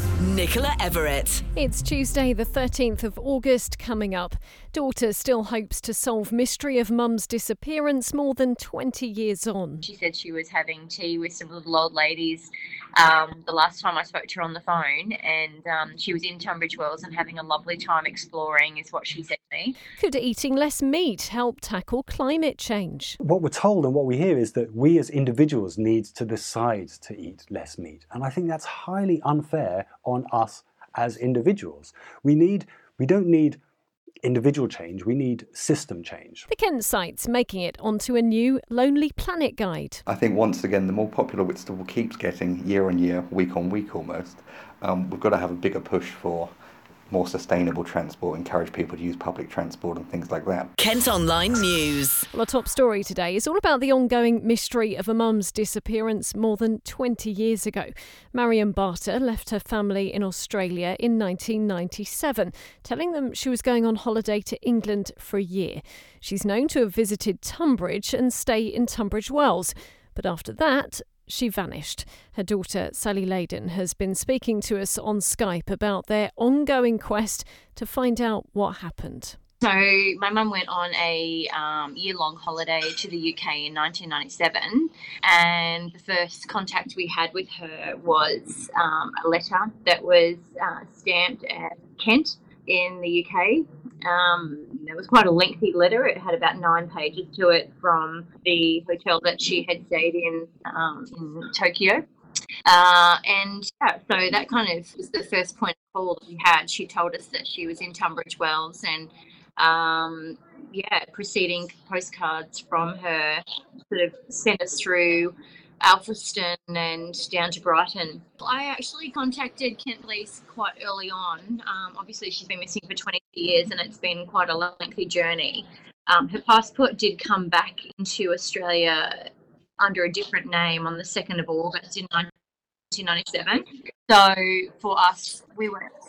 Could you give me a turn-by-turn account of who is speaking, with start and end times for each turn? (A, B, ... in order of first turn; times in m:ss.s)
0:00.2-0:01.4 A
0:01.5-0:09.9 B
0:09.8-0:19.7 C
0:20.0-0:23.2 B
0:23.2-0:33.6 D
0:34.2-0:36.5 D
0:36.5-0:40.0 B
0:40.1-0:46.5 E
0:47.1-0:50.7 E
0:50.8-0:52.3 A
0:52.3-1:19.4 B
1:19.6-1:42.0 C
1:42.6-1:53.4 C
1:53.9-2:09.0 C
2:09.8-2:12.3 C
2:12.9-2:14.3 C
2:14.8-2:15.8 C